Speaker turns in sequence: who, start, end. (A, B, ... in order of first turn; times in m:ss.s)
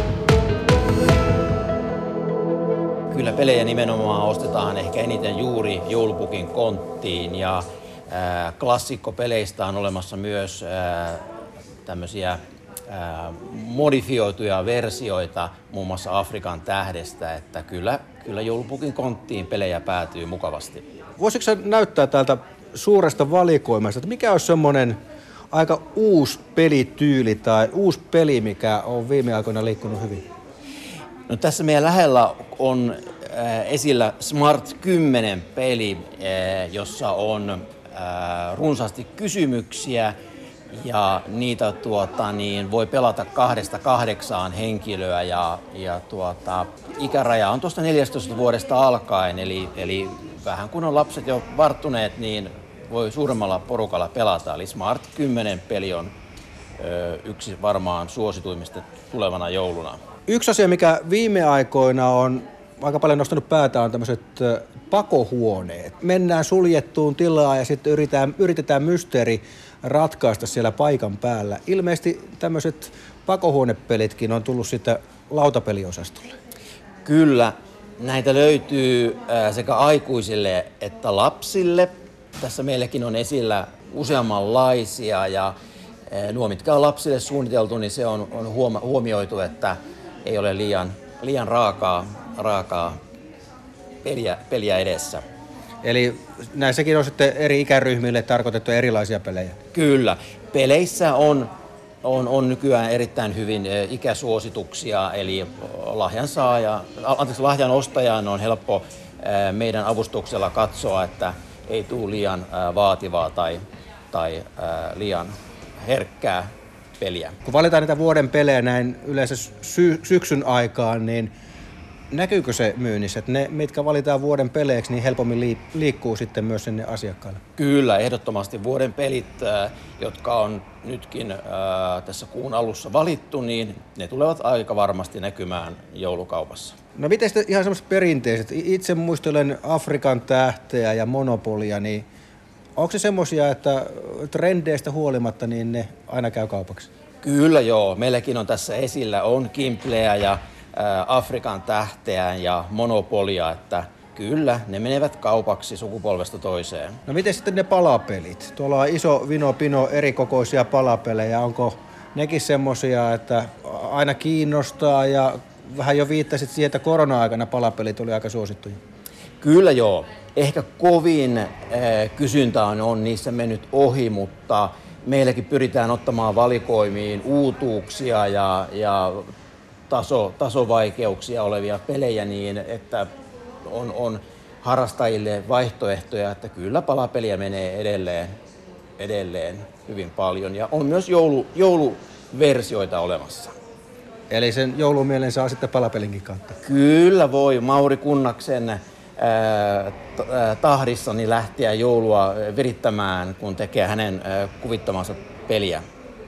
0:03.1-0:11.2 A
0:11.8-0:20.8 A
0:21.2-0:25.0 B
0:25.5-0:30.2 B
0:31.3-0:40.1 A
0:40.7-0:56.1 A
0:56.8-1:00.0 A
1:00.3-1:16.4 B
1:17.0-1:25.5 A
1:26.1-1:33.0 A
1:34.0-1:35.2 A
1:35.8-1:39.6 B
1:39.7-1:41.5 A
1:42.0-1:53.6 A
1:54.1-1:57.4 A
1:57.4-2:01.3 B
2:02.1-2:07.4 B
2:07.6-2:16.8 A
2:17.0-2:22.0 B
2:22.8-2:26.9 B
2:27.2-2:37.0 A
2:37.1-2:48.8 B
2:49.4-2:59.3 A
2:59.9-3:03.1 A
3:03.6-3:08.3 A
3:09.0-3:13.6 A
3:14.3-3:16.6 B
3:16.6-3:25.8 A